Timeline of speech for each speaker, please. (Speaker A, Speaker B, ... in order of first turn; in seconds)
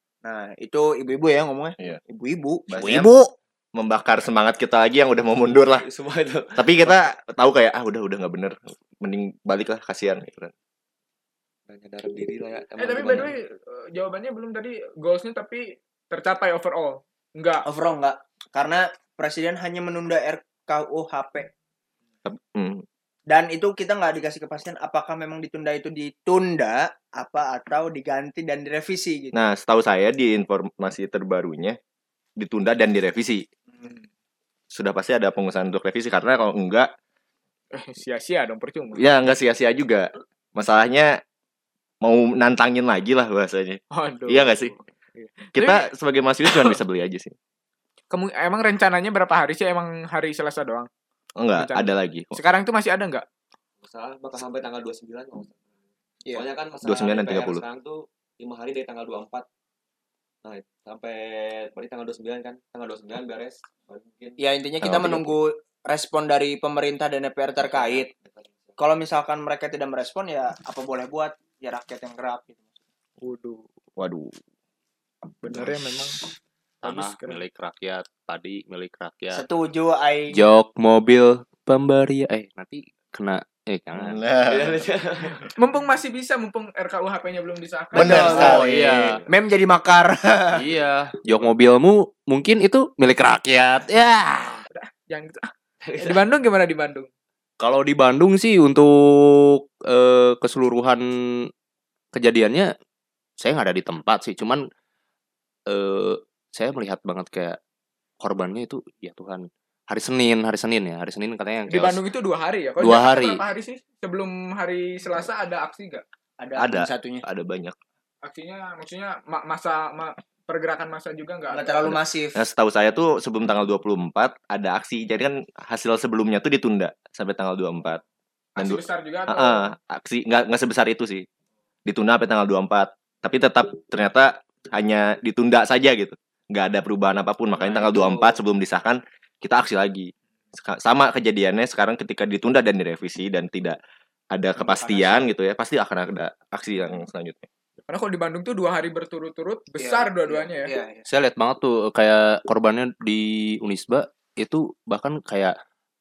Speaker A: 0.2-2.8, 17.7-21.5, 23.3-29.4, 64.4-68.1, 68.8-72.6, 79.3-80.4, 88.0-88.7, 89.3-90.6, 116.4-117.2, 121.5-122.4, 137.9-138.4, 149.8-151.1
Speaker B: 2.7-3.1, 3.8-5.9, 6.6-10.5, 22.2-22.8, 29.3-31.8, 32.4-33.4, 34.7-36.9, 39.0-41.1, 42.0-44.7, 45.5-47.3, 51.4-52.4, 56.8-57.6, 64.8-65.4, 74.0-74.4, 75.5-75.7, 84.0-84.8, 87.9-89.2, 116.6-117.8, 121.9-128.0, 128.6-131.2, 131.9-143.8, 144.3-147.5
Speaker C: 2.7-3.3, 76.8-79.4, 80.3-84.2, 88.0-89.2, 90.5-94.6, 97.6-101.5, 102.2-102.7, 103.4-104.7, 105.7-107.6, 108.2-112.0, 112.8-113.4, 151.1-155.6
Speaker D: 5.8-6.7, 11.7-13.3, 53.8-55.7, 56.3-59.5, 60.4-64.4, 67.7-68.8, 84.5-85.5, 95.8-96.2
Speaker E: 12.8-17.6, 37.7-39.0, 43.9-45.9, 48.1-50.9, 51.5-53.2, 73.2-73.7, 75.4-76.2, 76.8-77.4, 85.6-88.6, 94.7-97.1, 111.7-116.0, 118.2-122.0, 128.6-129.7, 144.7-145.2, 147.9-150.7